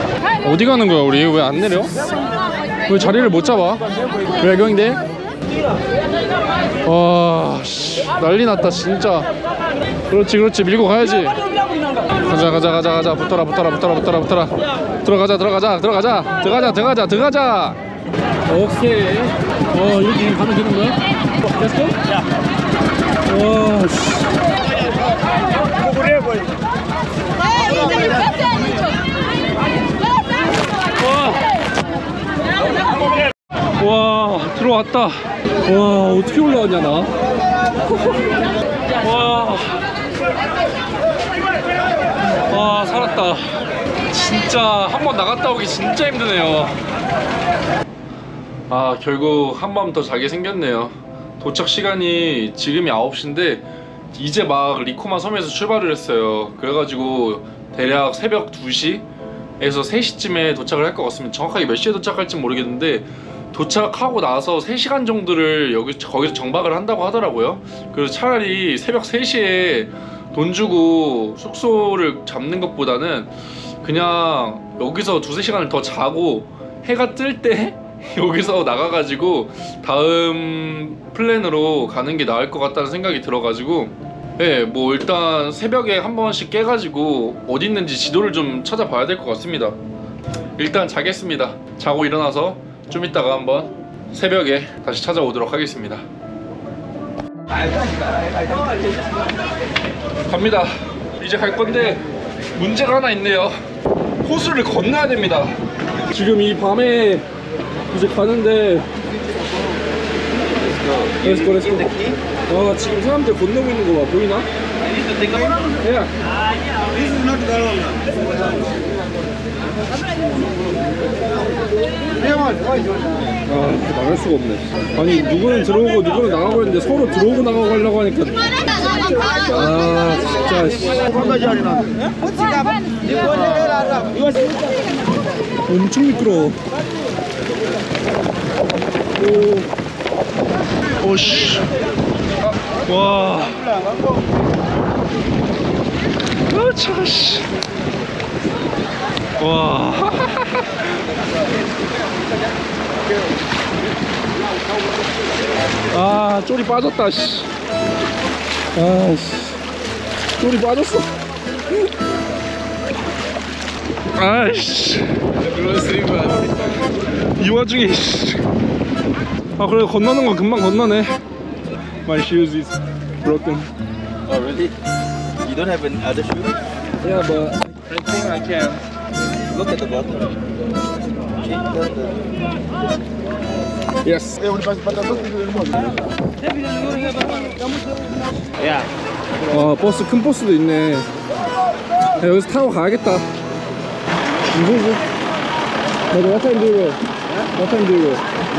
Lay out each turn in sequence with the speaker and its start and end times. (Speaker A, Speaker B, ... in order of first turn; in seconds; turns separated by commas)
Speaker A: 0.4-1.9, Speaker A: 2.9-3.8, Speaker A: 4.4-5.0, Speaker A: 6.8-9.3, Speaker A: 10.1-11.4, Speaker A: 12.3-17.8, Speaker A: 18.5-22.0, Speaker A: 23.2-24.3, Speaker A: 31.0-31.4, Speaker A: 33.8-37.2, Speaker A: 37.9-38.3, Speaker A: 39.0-39.8, Speaker A: 42.4-43.5, Speaker A: 44.1-46.8, Speaker A: 48.7-59.0, Speaker A: 59.6-89.8, Speaker A: 90.6-96.0, Speaker A: 100.3-102.0, Speaker A: 102.5-103.5, Speaker A: 104.2-105.5, Speaker A: 106.1-107.3, Speaker A: 107.9-108.9, Speaker B: 110.5-111.2, Speaker A: 111.2-111.9, Speaker C: 111.2-112.2, Speaker A: 112.5-114.5, Speaker B: 114.9-115.6, Speaker A: 115.8-116.1, Speaker C: 116.9-118.5, Speaker C: 122.2-122.8, Speaker A: 123.5-128.5, Speaker A: 129.5-131.8, Speaker C: 133.0-134.5, Speaker A: 135.7-136.6, Speaker A: 139.2-139.7, Speaker A: 141.0-141.7, Speaker A: 142.8-143.6, Speaker A: 146.5-147.5, Speaker A: 149.4-150.6, Speaker A: 155.9-157.5, Speaker A: 158.8-159.6, Speaker A: 160.4-161.1, Speaker A: 164.2-165.1, Speaker B: 165.4-166.8, Speaker A: 167.4-168.4, Speaker A: 169.6-171.2, Speaker A: 172.0-173.7, Speaker B: 174.3-174.7, Speaker B: 175.4-176.5, Speaker A: 177.0-177.6, Speaker B: 177.9-178.8, Speaker B: 179.5-180.3, Speaker B: 181.4-182.2, Speaker A: 184.0-184.4, Speaker C: 184.5-185.6, Speaker C: 188.6-188.9, Speaker A: 189.5-191.1, Speaker A: 192.2-193.2, Speaker A: 194.5-195.0, Speaker A: 196.1-197.0, Speaker A: 197.5-198.2